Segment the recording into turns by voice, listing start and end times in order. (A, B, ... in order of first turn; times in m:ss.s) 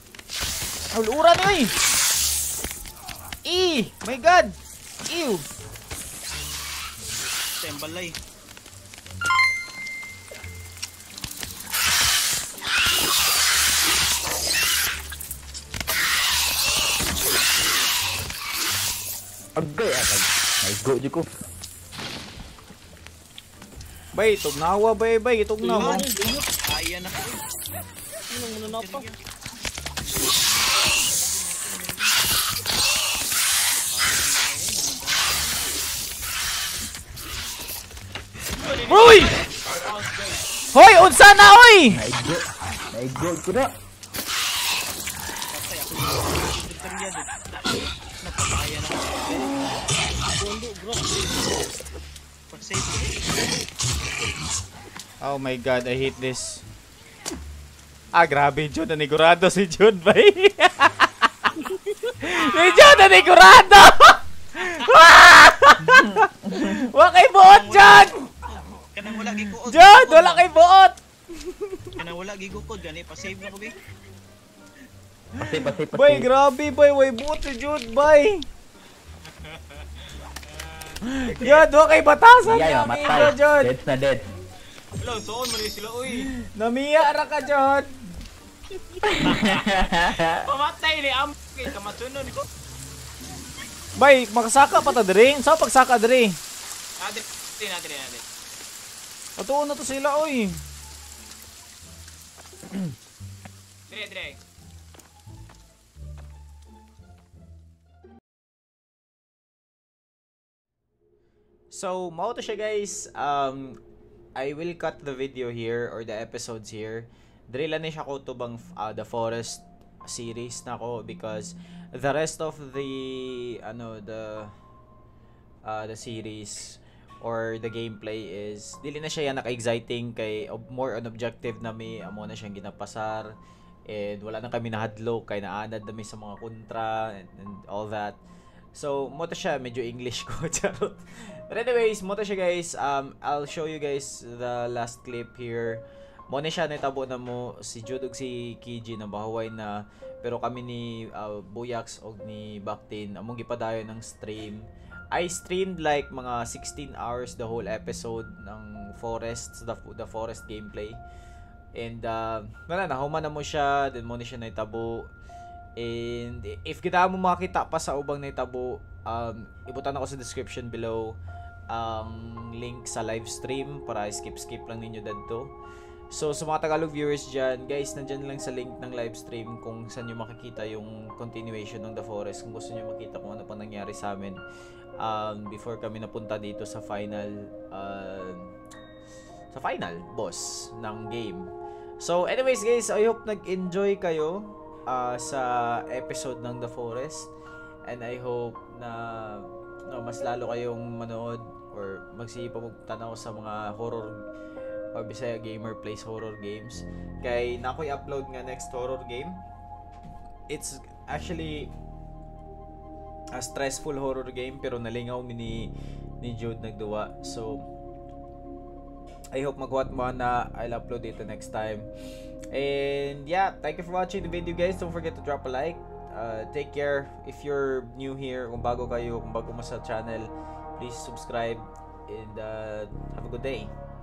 0:00.9-0:01.7 A
0:03.4-0:04.6 A
0:05.1-0:05.4 A
0:07.6-0:08.1 B
0:19.6-0:21.3 C
0:24.1-0:26.1 A
0:25.6-0:26.4 D
0:25.8-0:27.4 B
0:28.3-0:29.0 D
0:28.6-0:29.2 B
0:31.2-0:32.1 B
0:33.9-0:35.6 B
0:38.6-0:40.4 E
0:38.9-0:39.3 A
0:40.7-0:42.0 A
0:41.9-0:43.7 C
0:45.5-0:47.3 B
0:48.2-0:49.9 B
0:50.3-0:51.2 D
0:52.5-0:53.2 B
0:55.2-0:56.6 A
0:58.1-1:01.5 A
1:02.2-1:08.1 A
1:02.2-1:03.3 E
1:07.4-1:10.4 B
1:09.2-1:12.0 A
1:12.0-1:13.8 B
1:15.4-1:16.2 C
1:15.4-1:18.4 A
1:19.4-1:21.0 E
1:21.1-1:23.7 A
1:22.4-1:24.2 C
1:23.0-1:23.3 E
1:25.0-1:26.3 E
1:26.4-1:28.0 A
1:29.0-1:30.4 C
1:29.2-1:32.4 E
1:34.0-1:36.4 A
1:37.0-1:38.2 E
1:39.4-1:40.6 A
1:43.9-1:44.4 E
1:51.7-1:53.8 A
1:54.4-2:04.5 A
2:05.6-2:13.3 A
2:13.9-2:18.2 A
2:18.8-2:41.0 A
2:41.8-2:45.1 A
2:45.8-2:51.2 A
2:51.7-2:55.5 A
2:56.1-3:04.4 A
3:05.0-3:08.5 A
3:09.5-3:17.3 A
3:17.8-3:24.2 A
3:24.9-3:29.4 A
3:30.5-3:31.7 A
3:33.3-3:37.6 A
3:39.3-3:41.9 A
3:42.5-3:53.7 A